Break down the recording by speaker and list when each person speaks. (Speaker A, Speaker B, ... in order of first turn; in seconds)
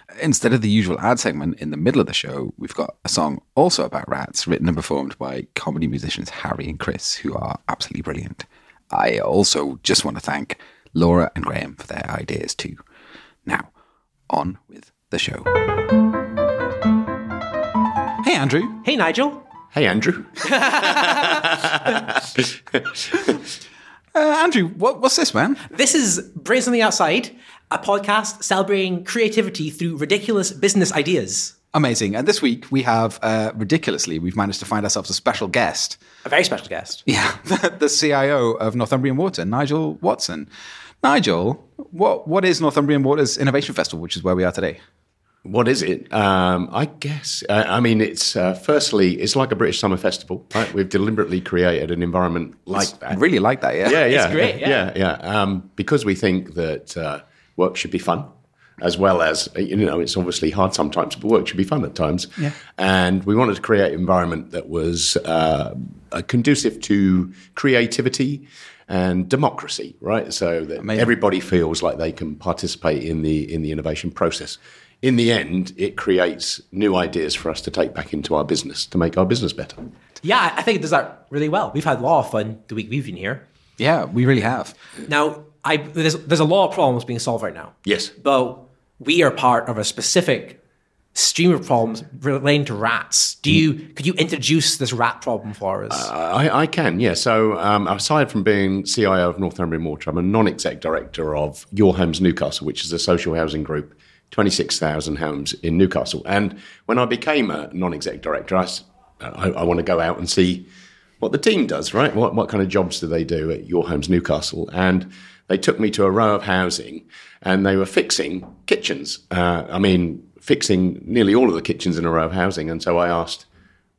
Speaker A: 0.2-12.8, 14.3-15.5, 18.2-18.8, 24.1-25.6, 31.7-36.0, 37.1-40.5, 41.0-44.8, 52.8-54.5, 70.8-71.1, 83.8-84.8
Speaker B: 18.8-19.4, 20.4-21.5, 25.7-31.6, 36.2-37.0, 53.9-54.8, 80.2-83.4, 85.1-90.6, 91.1-96.1
Speaker C: 19.7-23.4, 45.5-53.2, 53.8-79.8, 87.8-88.1, 95.9-110.7, 111.2-123.5